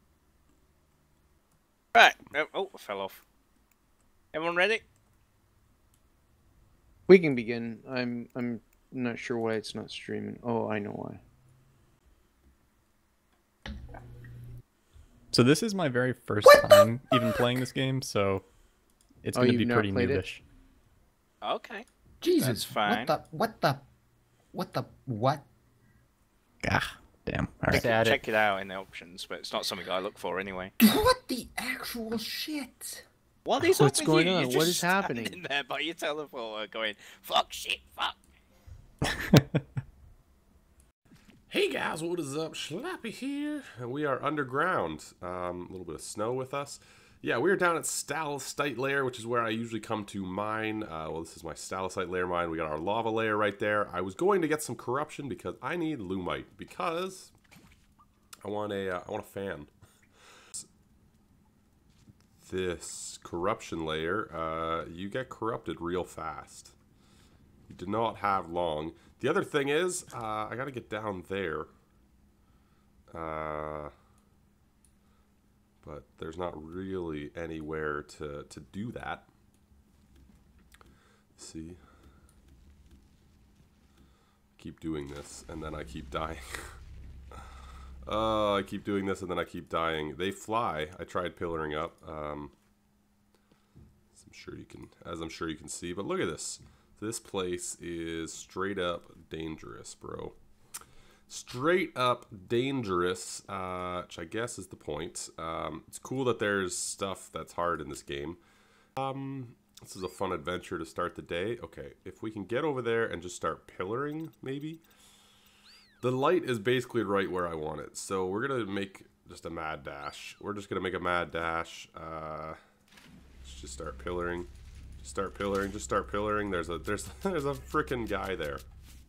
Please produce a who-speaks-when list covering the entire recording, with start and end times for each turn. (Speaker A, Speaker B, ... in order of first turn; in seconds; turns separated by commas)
Speaker A: 1.9-3.2, Speaker A: 4.3-4.8, Speaker B: 7.1-11.2, Speaker C: 15.3-18.5, Speaker D: 16.4-16.8, Speaker C: 19.2-20.4, Speaker B: 19.3-20.2, Speaker A: 21.4-21.8, Speaker D: 22.2-23.8, Speaker A: 22.4-23.1, Speaker D: 24.5-25.4, Speaker C: 26.6-28.2, Speaker A: 27.7-30.7, Speaker D: 30.8-33.0, Speaker A: 33.5-38.1, Speaker B: 33.6-35.4, Speaker C: 39.1-39.4, Speaker E: 41.5-57.3, Speaker E: 58.4-59.7, Speaker E: 62.4-66.7, Speaker E: 67.7-71.7, Speaker E: 73.1-73.9, Speaker E: 75.8-79.3, Speaker E: 81.3-81.8, Speaker E: 84.6-86.8, Speaker E: 88.0-92.5, Speaker E: 94.1-100.3, Speaker E: 101.3-108.4, Speaker E: 109.0-114.8, Speaker E: 116.0-122.6, Speaker E: 123.4-128.6